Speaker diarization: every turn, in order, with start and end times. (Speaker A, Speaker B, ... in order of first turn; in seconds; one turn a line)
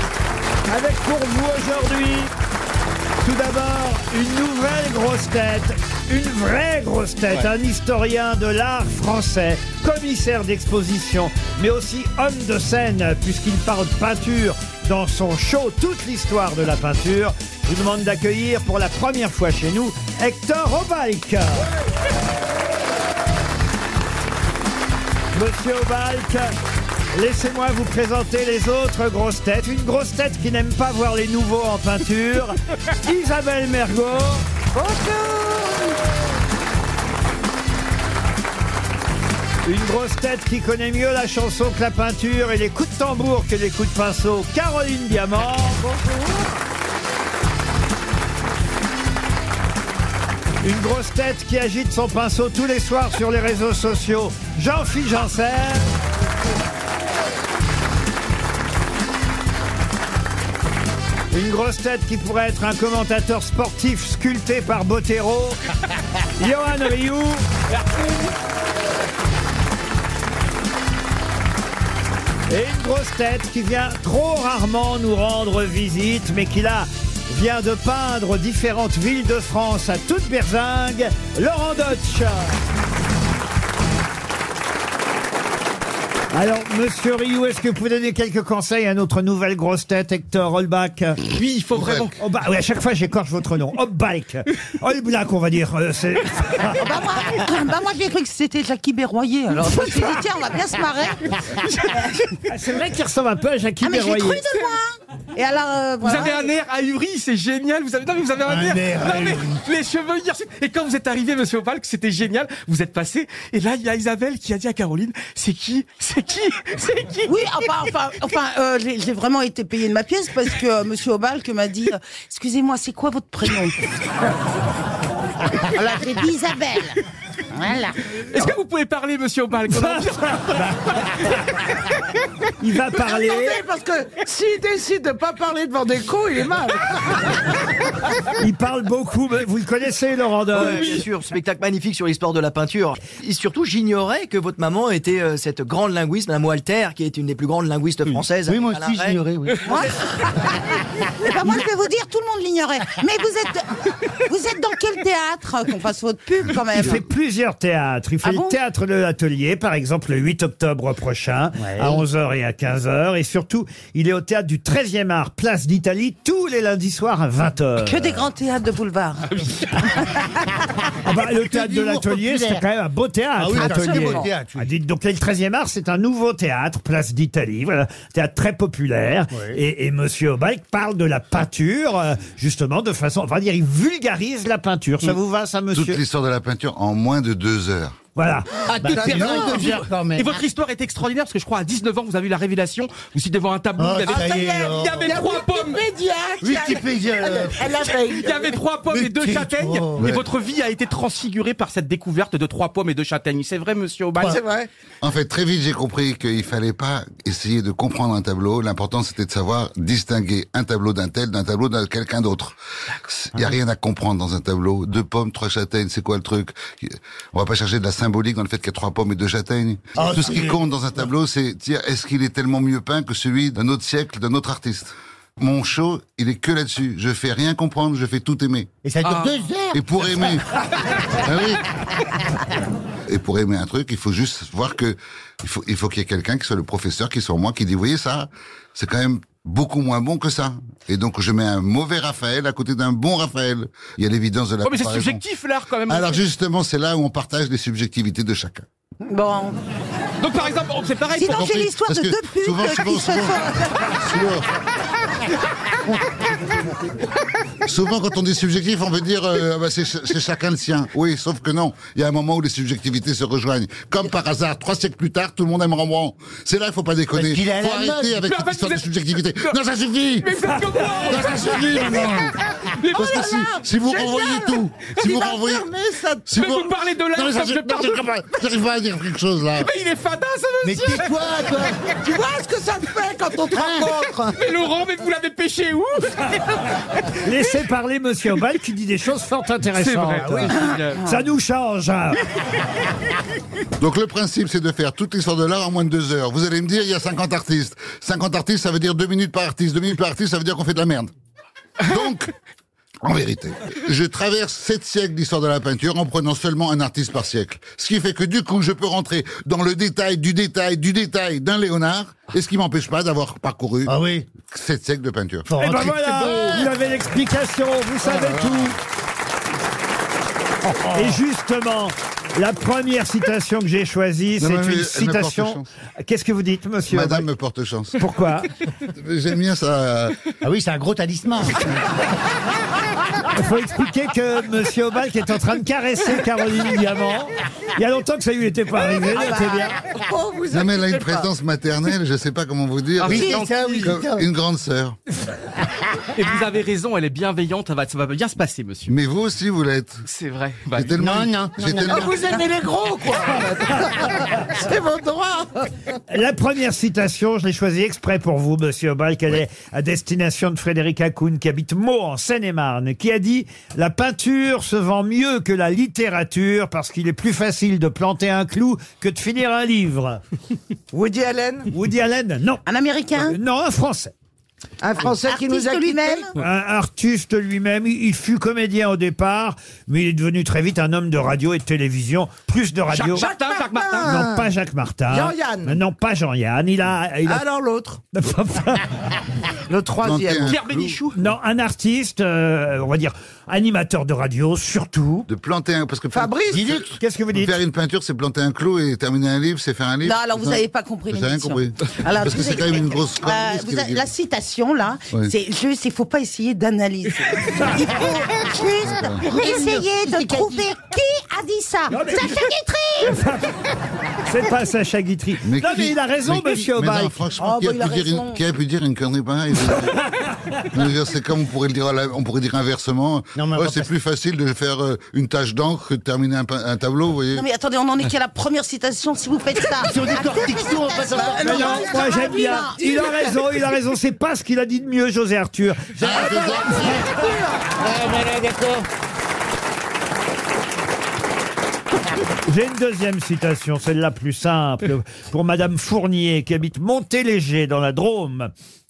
Speaker A: 0.7-2.3
Speaker A: 3.2-21.7
Speaker A: 25.3-26.5
Speaker A: 27.1-34.5
Speaker B: 35.4-35.9
Speaker A: 39.6-45.8
Speaker B: 45.9-46.5
Speaker A: 50.6-55.9
Speaker A: 61.3-65.6
Speaker A: 66.4-67.4
Speaker A: 72.5-82.6
Speaker A: 86.3-91.2
Speaker C: 91.3-92.2
Speaker A: 92.2-96.8
Speaker D: 96.7-102.0
Speaker C: 101.6-102.4
Speaker A: 102.5-104.4
Speaker D: 103.8-106.5
Speaker C: 106.0-117.5
Speaker E: 108.4-109.6
Speaker D: 117.3-123.8
Speaker D: 125.7-127.0
Speaker D: 127.5-128.2
Speaker C: 128.3-131.0
Speaker A: 129.7-130.0
Speaker A: 132.6-133.6
Speaker B: 133.0-137.6
Speaker A: 138.4-141.0
Speaker F: 140.5-149.2
Speaker C: 140.6-140.9
Speaker E: 148.5-150.0
Speaker D: 149.7-153.8
Speaker D: 154.3-157.0
Speaker A: 156.7-168.2
Speaker D: 158.2-158.6
Speaker E: 161.6-162.0
Speaker D: 167.8-170.3
Speaker A: 171.0-186.0
Speaker E: 171.2-172.7
Speaker E: 173.4-174.7
Speaker D: 173.6-174.3
Speaker E: 179.3-179.6
Speaker G: 185.7-188.0
Speaker A: 188.2-188.5
Speaker C: 188.7-195.8
Speaker B: 188.8-189.8
Speaker E: 188.8-190.4
Speaker E: 193.8-195.2
Speaker B: 194.1-198.5
Speaker E: 196.4-197.8
Speaker C: 197.9-204.4
Speaker E: 198.9-200.1
Speaker G: 200.0-200.2
Speaker B: 204.2-204.7
Speaker G: 205.0-212.6
Speaker G: 213.1-228.7
Speaker E: 220.0-220.6
Speaker E: 228.8-230.4
Speaker C: 229.0-229.3
Speaker G: 229.7-230.4
Speaker G: 231.2-231.6
Speaker G: 233.1-245.2
Speaker C: 244.6-246.2
Speaker G: 245.9-248.7
Speaker D: 249.1-249.6
Speaker C: 250.2-251.5
Speaker D: 251.2-254.0
Speaker G: 251.3-254.5
Speaker G: 257.6-270.3
Speaker E: 267.1-268.2
Speaker C: 268.2-269.6
Speaker C: 270.2-272.2
Speaker G: 271.0-272.3
Speaker C: 272.7-273.6
Speaker G: 272.9-275.7
Speaker B: 273.0-276.4
Speaker G: 276.3-279.7
Speaker C: 276.3-278.1
Speaker C: 279.6-281.8
Speaker E: 280.6-281.8
Speaker B: 282.0-284.3
Speaker E: 283.5-284.2
Speaker C: 284.3-286.6
Speaker A: 287.2-292.2
Speaker C: 289.8-291.1
Speaker E: 290.2-290.6
Speaker G: 293.8-301.1
Speaker G: 301.8-302.3
Speaker G: 303.0-315.5
Speaker E: 313.9-314.3
Speaker E: 315.5-316.7
Speaker A: 315.6-318.8
Speaker G: 318.2-318.6
Speaker E: 320.6-321.2
Speaker A: 320.9-327.3
Speaker G: 324.4-325.7
Speaker G: 326.9-328.0
Speaker A: 328.0-328.5
Speaker G: 328.9-330.2
Speaker E: 330.4-331.7
Speaker A: 333.3-339.8
Speaker B: 339.0-341.3
Speaker G: 340.5-345.0
Speaker C: 343.0-343.9
Speaker E: 343.0-344.3
Speaker C: 346.1-348.9
Speaker G: 348.9-350.0
Speaker C: 350.1-351.0
Speaker G: 350.8-352.1
Speaker E: 351.0-352.2
Speaker B: 351.9-355.6
Speaker A: 356.1-370.2
Speaker B: 370.9-371.7
Speaker A: 371.7-372.6
Speaker D: 372.7-373.4
Speaker A: 373.3-374.1
Speaker B: 374.8-376.3
Speaker D: 375.3-376.3
Speaker A: 376.4-383.3
Speaker C: 382.9-384.1
Speaker B: 383.1-384.5
Speaker A: 384.0-387.4
Speaker B: 385.1-385.8
Speaker B: 387.3-388.0
Speaker A: 388.1-388.9
Speaker B: 389.7-391.1
Speaker G: 390.0-390.9
Speaker C: 390.4-391.1
Speaker A: 391.2-395.3
Speaker G: 395.3-404.0
Speaker B: 396.1-396.8
Speaker E: 396.5-396.9
Speaker A: 397.0-397.6
Speaker D: 400.0-413.2
Speaker G: 408.8-409.2
Speaker E: 409.2-410.7
Speaker A: 411.9-412.4
Speaker A: 413.0-413.5
Speaker A: 414.2-417.2
Speaker G: 415.4-420.1
Speaker D: 417.4-418.4
Speaker G: 420.7-427.5
Speaker E: 423.4-423.9
Speaker D: 427.3-433.4
Speaker E: 429.8-432.0
Speaker A: 431.4-436.9
Speaker G: 436.0-437.2
Speaker B: 436.1-437.8
Speaker E: 438.1-438.5
Speaker A: 442.5-448.5